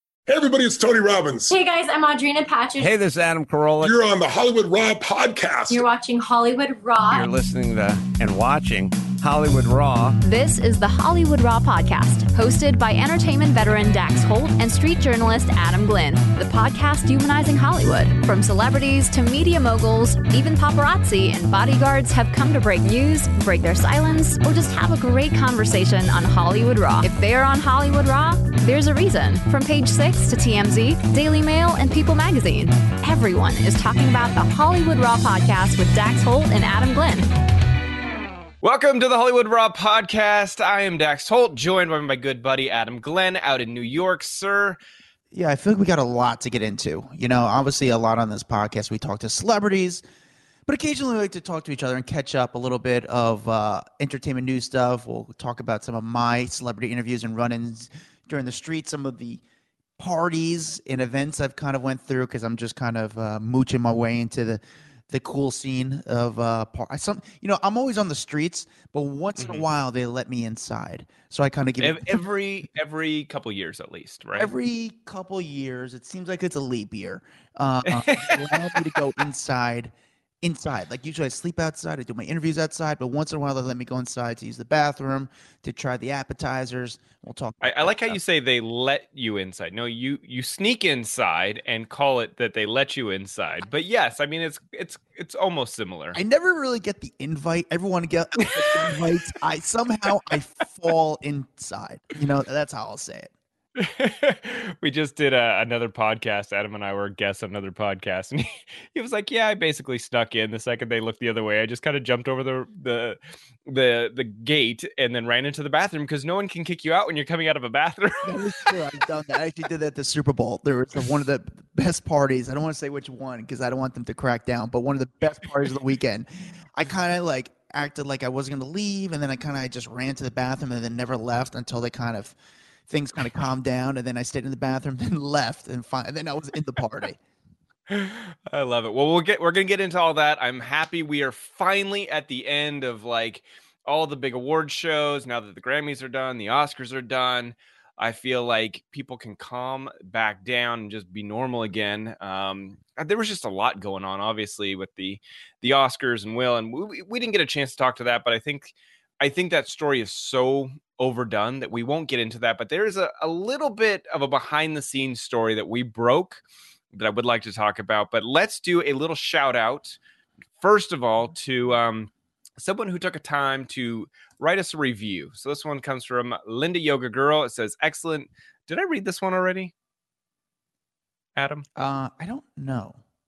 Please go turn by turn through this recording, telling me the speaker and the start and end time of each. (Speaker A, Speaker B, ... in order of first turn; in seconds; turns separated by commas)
Speaker A: 0.3-1.6, Speaker B: 1.5-2.9, Speaker C: 2.8-4.0, Speaker A: 3.8-5.8, Speaker B: 5.7-7.3, Speaker C: 7.1-10.2, Speaker D: 10.2-37.3, Speaker E: 38.6-44.8, Speaker F: 45.3-50.0, Speaker F: 50.7-59.4, Speaker F: 60.0-72.2, Speaker E: 69.4-69.7, Speaker E: 71.8-74.5, Speaker F: 74.4-88.2, Speaker E: 77.9-78.8, Speaker E: 87.6-96.2, Speaker F: 96.1-103.3, Speaker E: 98.6-99.1, Speaker E: 103.8-118.8, Speaker F: 118.2-132.4, Speaker F: 132.9-137.2, Speaker E: 137.9-170.0, Speaker E: 170.6-179.7, Speaker E: 181.4-181.7, Speaker F: 181.8-183.0